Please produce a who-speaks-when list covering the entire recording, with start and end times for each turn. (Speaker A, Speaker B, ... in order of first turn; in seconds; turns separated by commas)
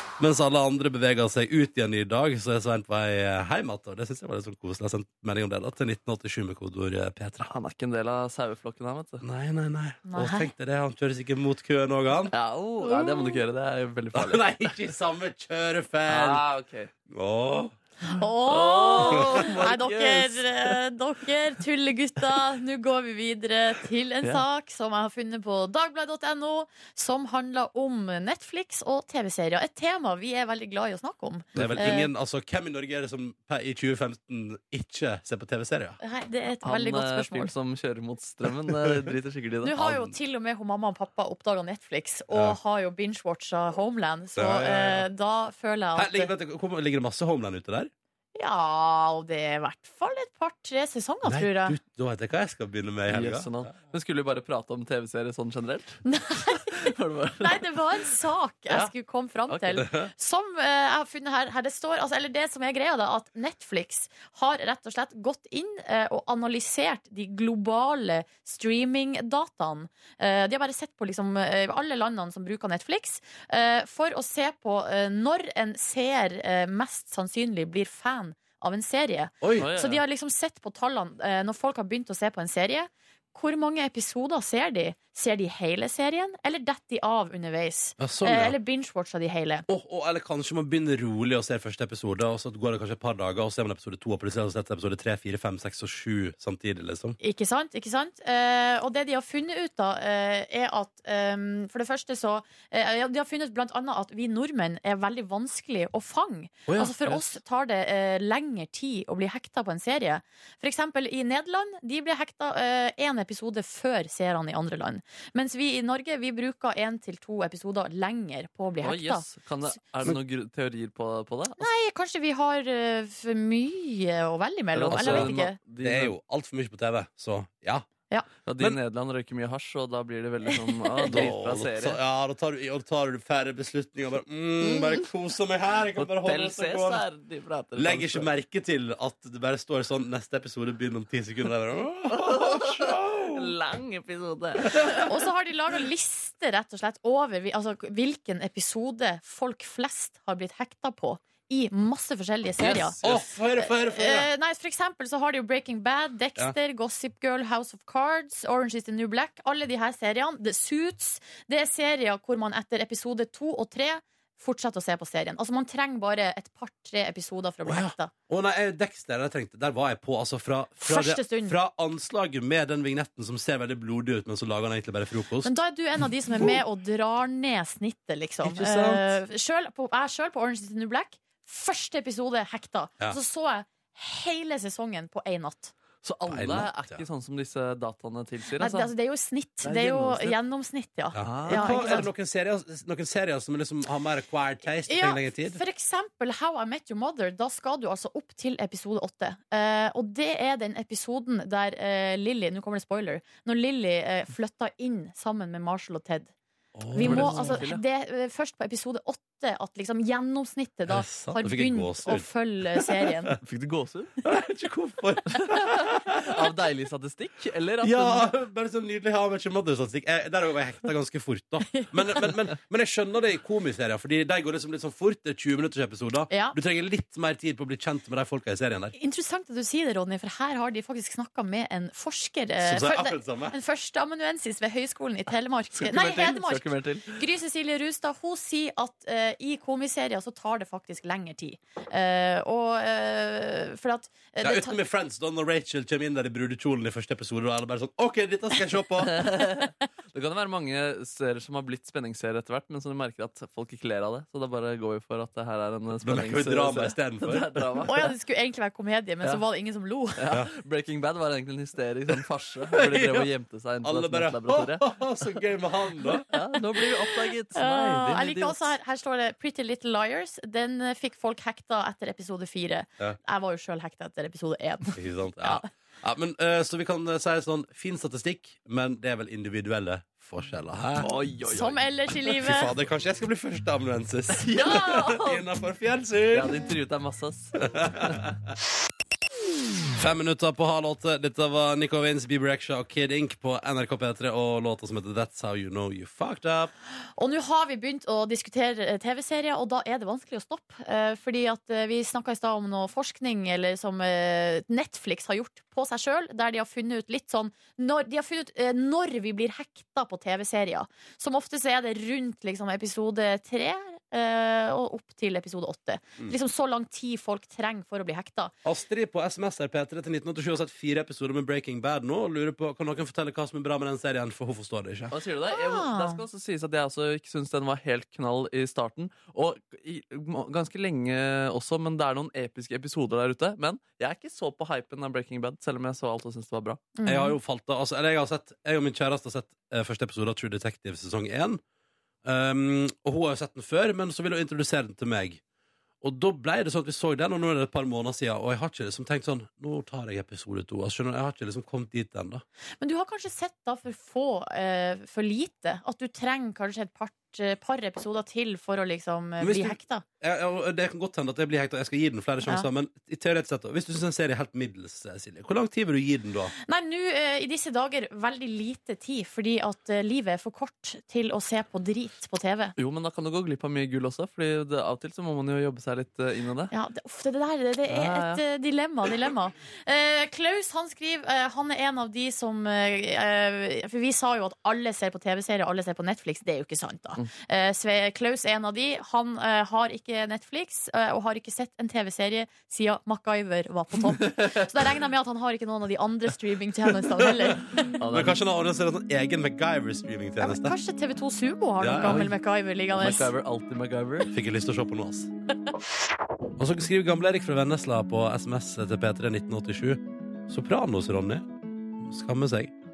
Speaker A: 0.2-7.5, Speaker B: 7.4-9.2, Speaker A: 9.2-12.3, Speaker C: 10.1-10.5, Speaker B: 12.3-14.7, Speaker C: 12.8-13.4, Speaker A: 14.1-16.4, Speaker B: 16.1-16.9, Speaker A: 17.1-17.7, Speaker C: 18.0-32.1, Speaker B: 18.5-20.8, Speaker A: 31.5-36.0, Speaker C: 36.0-37.5, Speaker B: 36.6-39.8, Speaker C: 39.6-46.3, Speaker A: 39.8-40.1, Speaker A: 42.3-42.6, Speaker A: 44.4-45.0, Speaker A: 46.0-47.9, Speaker C: 48.4-51.8, Speaker A: 51.2-53.5, Speaker B: 53.1-56.0, Speaker C: 56.0-89.7, Speaker B: 56.7-57.8, Speaker B: 59.5-59.8, Speaker A: 79.4-79.7, Speaker B: 79.6-80.0, Speaker A: 88.0-88.5, Speaker A: 89.7-97.2, Speaker C: 97.2-119.2, Speaker A: 106.7-107.2, Speaker B: 118.8-121.7, Speaker C: 121.6-125.6, Speaker B: 124.7-126.1, Speaker A: 124.9-127.8, Speaker B: 128.4-132.0, Speaker A: 131.1-137.0, Speaker B: 136.0-138.3, Speaker A: 137.8-143.5, Speaker B: 142.1-145.1, Speaker A: 144.7-145.0, Speaker C: 145.0-153.0, Speaker B: 152.6-153.2, Speaker A: 153.0-154.3, Speaker C: 153.6-168.1, Speaker A: 167.7-175.5, Speaker C: 170.8-171.6, Speaker C: 175.4-185.7, Speaker A: 178.4-179.2, Speaker B: 186.0-188.9, Speaker A: 186.3-187.0, Speaker C: 188.6-192.1, Speaker B: 189.6-190.3, Speaker A: 191.1-195.6, Speaker B: 191.2-192.1, Speaker C: 194.8-206.3, Speaker A: 206.7-207.6, Speaker C: 206.9-213.3, Speaker B: 207.0-207.8, Speaker A: 210.9-213.4, Speaker B: 213.4-214.1, Speaker A: 214.2-216.4, Speaker B: 216.2-218.3, Speaker A: 217.8-228.9, Speaker C: 226.3-226.6, Speaker C: 228.9-244.8, Speaker A: 232.6-233.6, Speaker B: 235.7-237.2, Speaker A: 244.4-249.3, Speaker B: 249.0-258.1, Speaker A: 256.0-257.8, Speaker C: 257.9-260.2, Speaker B: 260.2-265.0, Speaker A: 262.7-263.3, Speaker A: 263.8-266.2, Speaker B: 266.0-268.7, Speaker C: 267.5-275.6, Speaker A: 274.9-281.1, Speaker B: 281.0-281.8, Speaker C: 281.5-282.7, Speaker A: 282.4-286.5, Speaker B: 284.4-285.4, Speaker B: 286.3-288.2, Speaker A: 287.6-288.3, Speaker A: 289.9-296.7, Speaker C: 297.2-318.5, Speaker A: 318.6-325.1, Speaker B: 325.1-336.8, Speaker C: 325.5-326.2, Speaker C: 337.0-337.4, Speaker A: 337.0-341.6, Speaker A: 342.2-345.4, Speaker A: 346.0-352.4, Speaker C: 352.8-360.0, Speaker A: 359.4-366.5, Speaker C: 366.6-372.7, Speaker B: 372.8-376.7, Speaker C: 376.7-397.8, Speaker B: 377.9-378.4, Speaker B: 397.9-398.4, Speaker A: 398.1-400.8, Speaker C: 400.4-403.3, Speaker A: 401.8-402.3, Speaker B: 402.1-402.3, Speaker B: 402.9-404.3, Speaker A: 404.3-405.3, Speaker A: 406.6-412.7